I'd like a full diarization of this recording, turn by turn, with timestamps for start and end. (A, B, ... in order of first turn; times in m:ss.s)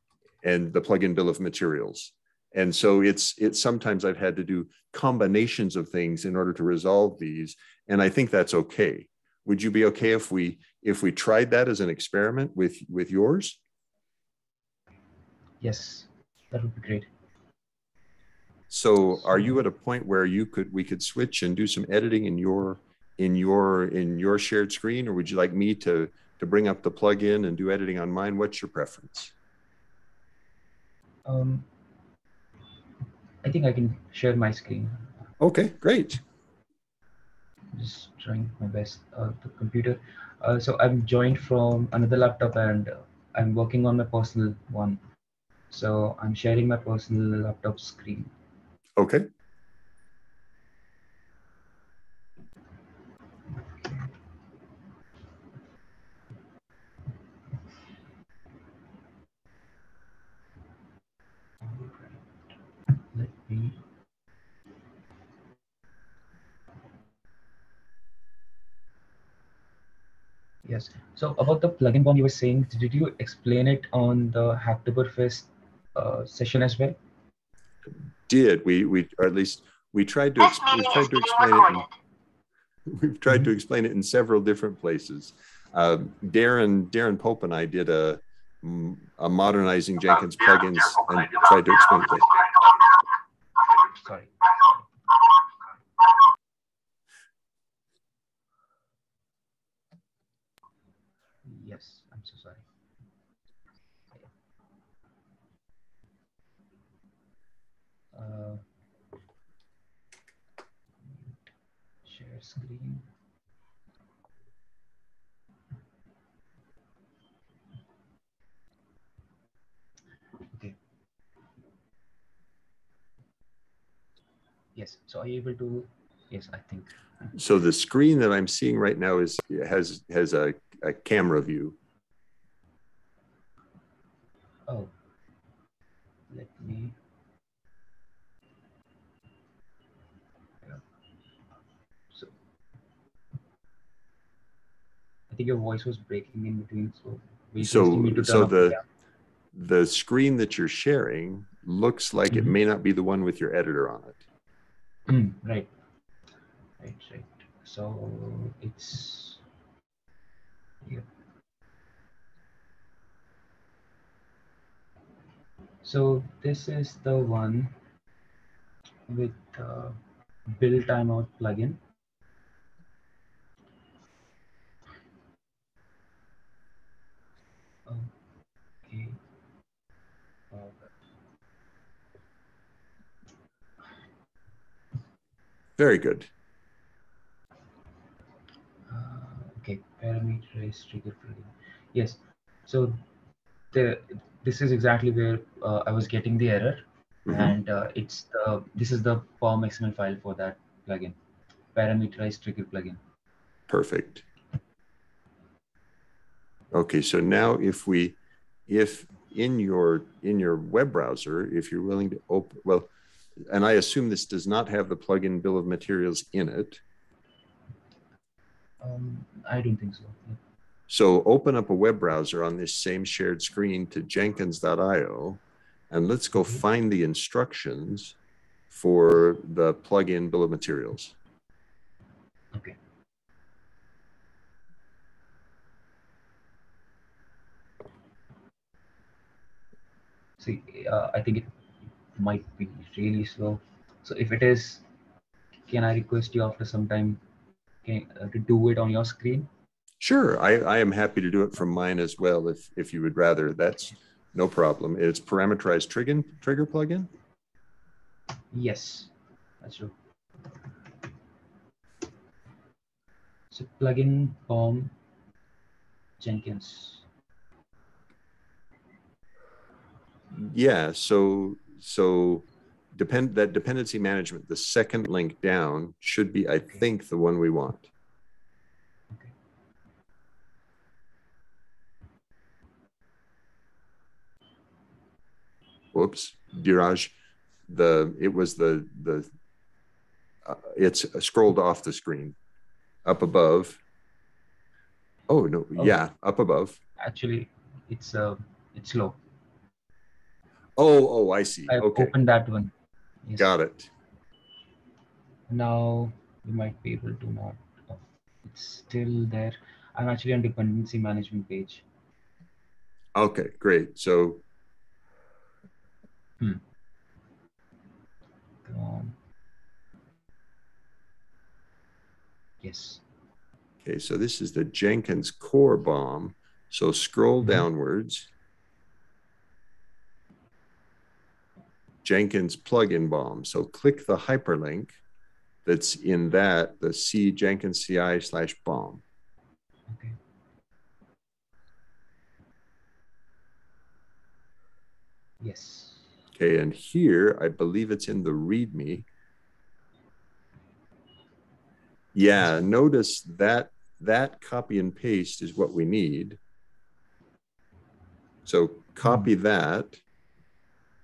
0:00.4-0:13.6 A
0:15.6-0:17.1 B
0:18.7-0:29.3 A
0:31.2-0:31.7 B
0:33.4-0:35.1 B
0:35.4-0:36.2 A
0:37.7-0:45.0 B
0:45.7-0:48.3 B
0:49.0-0:49.3 A
0:53.8-0:54.1 B
1:01.6-1:02.2 B
1:02.9-1:03.8 B
1:10.6-1:17.0 B
1:18.3-1:21.9 A
1:22.9-1:32.5 A
1:33.8-1:34.9 B
1:41.4-1:42.6 B
1:48.1-1:48.6 B
1:52.0-1:53.1 B
2:00.5-2:00.8 B
2:04.8-2:07.3 B
2:07.4-2:11.8 A
2:14.7-2:14.9 B
2:16.3-2:17.0 B
2:25.3-2:28.8 B
2:27.6-2:28.8 A
2:29.5-2:34.2 A
2:35.1-2:35.7 B
2:36.8-2:39.4 B
2:45.8-2:47.8 B
2:49.1-2:51.8 B
2:57.9-2:58.1 B
2:58.8-2:59.2 B
3:00.5-3:00.8 B
3:05.8-3:06.3 A
3:08.9-3:13.0 B
3:13.7-3:21.2 B
3:17.3-3:17.5 A
3:21.7-3:23.0 B
3:23.7-3:24.2 A
3:26.7-3:32.9 A
3:33.5-3:36.8 A
3:38.8-3:40.4 B
3:40.9-3:48.2 A
3:48.7-3:51.2 A
4:00.4-4:01.5 B
4:02.1-4:04.8 B
4:05.7-4:07.2 B
4:07.8-4:09.5 B
4:10.0-4:17.1 A
4:18.5-4:19.9 B
4:23.5-4:24.9 B
4:26.2-4:27.0 B
4:30.3-4:37.9 A
4:45.9-4:47.1 A
4:47.7-4:49.3 A
4:50.4-4:52.4 A
4:53.0-4:53.8 A
4:55.3-4:56.8 A
4:57.0-4:59.2 B
5:00.8-5:02.1 A
5:01.7-5:02.7 B
5:03.2-5:03.5 B
5:03.4-5:03.9 A
5:05.5-5:11.8 B
5:13.2-5:14.4 A
5:18.6-5:19.2 B
5:22.6-5:23.0 B
5:23.8-5:28.3 A
5:32.0-5:35.0 A
5:35.7-5:39.0 A
5:39.9-5:40.2 B
5:45.4-5:46.1 B
5:46.4-5:49.1 A
5:52.1-5:56.4 A
5:58.5-6:00.0 A
5:59.0-5:59.3 B